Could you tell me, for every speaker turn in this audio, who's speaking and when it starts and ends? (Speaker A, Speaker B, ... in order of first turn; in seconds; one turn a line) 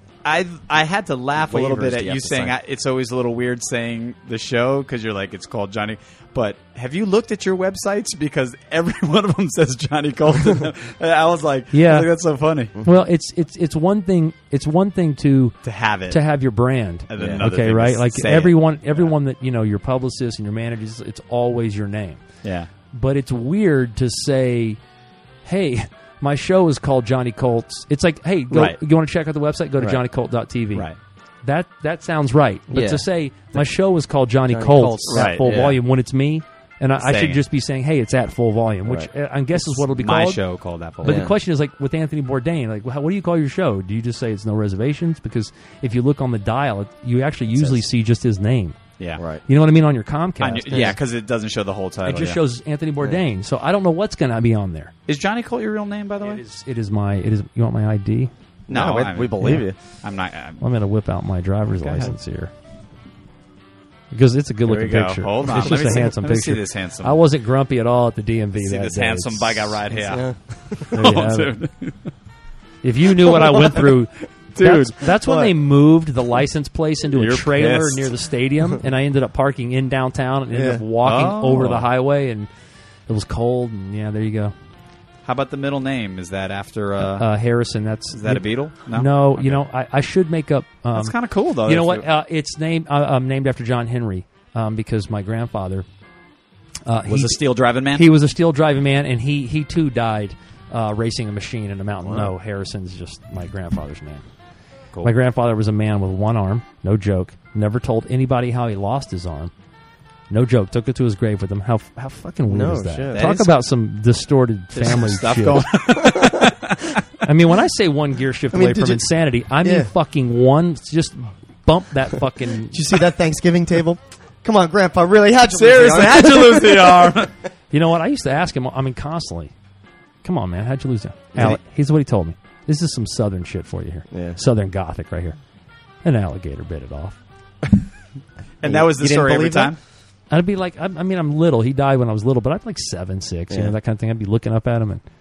Speaker A: 0.2-12.7
Speaker B: 1.4-2.5
Speaker C: 11.7-12.1
Speaker C: 12.8-15.6
Speaker A: 15.6-16.2
Speaker C: 16.1-22.2
Speaker A: 17.1-19.1
Speaker B: 17.2-17.5
Speaker A: 22.4-22.7
Speaker C: 22.9-24.8
Speaker C: 25.4-30.9
Speaker A: 28.5-28.8
Speaker C: 31.4-40.4
Speaker B: 32.7-33.6
Speaker B: 34.5-35.8
Speaker A: 35.1-35.4
Speaker A: 37.0-37.4
Speaker A: 39.5-41.3
Speaker C: 41.0-48.8
Speaker B: 41.0-41.3
Speaker B: 47.5-47.8
Speaker B: 49.2-49.4
Speaker C: 49.5-51.0
Speaker A: 50.4-52.4
Speaker B: 50.7-51.0
Speaker C: 52.0-54.9
Speaker A: 55.1-56.4
Speaker C: 56.2-58.3
Speaker B: 58.7-59.8
Speaker A: 58.7-60.6
Speaker C: 60.6-62.5
Speaker A: 61.8-62.1
Speaker C: 64.1-69.8
Speaker A: 64.6-67.2
Speaker B: 65.6-66.0
Speaker A: 68.5-70.2
Speaker B: 69.9-70.9
Speaker A: 70.8-72.1
Speaker C: 70.9-71.5
Speaker C: 72.8-82.5
Speaker A: 74.5-75.0
Speaker B: 75.2-75.5
Speaker A: 77.1-78.1
Speaker B: 80.5-80.8
Speaker A: 81.0-81.9
Speaker C: 83.1-84.5
Speaker A: 85.2-87.3
Speaker C: 87.1-95.8
Speaker A: 88.1-89.6
Speaker A: 90.9-92.0
Speaker C: 96.8-97.4
Speaker A: 97.1-98.1
Speaker C: 97.9-104.2
Speaker B: 102.0-102.3
Speaker C: 105.0-109.5
Speaker C: 110.3-115.7
Speaker B: 112.5-113.3
Speaker A: 113.1-113.5
Speaker A: 114.7-117.0
Speaker B: 116.0-116.5
Speaker C: 117.2-122.8
Speaker B: 118.5-119.1
Speaker B: 119.6-119.9
Speaker B: 122.7-127.2
Speaker A: 125.5-127.3
Speaker C: 127.7-129.5
Speaker C: 130.2-135.4
Speaker B: 134.1-134.4
Speaker C: 136.0-137.2
Speaker A: 138.6-139.8
Speaker B: 138.6-139.7
Speaker C: 140.3-145.0
Speaker B: 143.5-143.7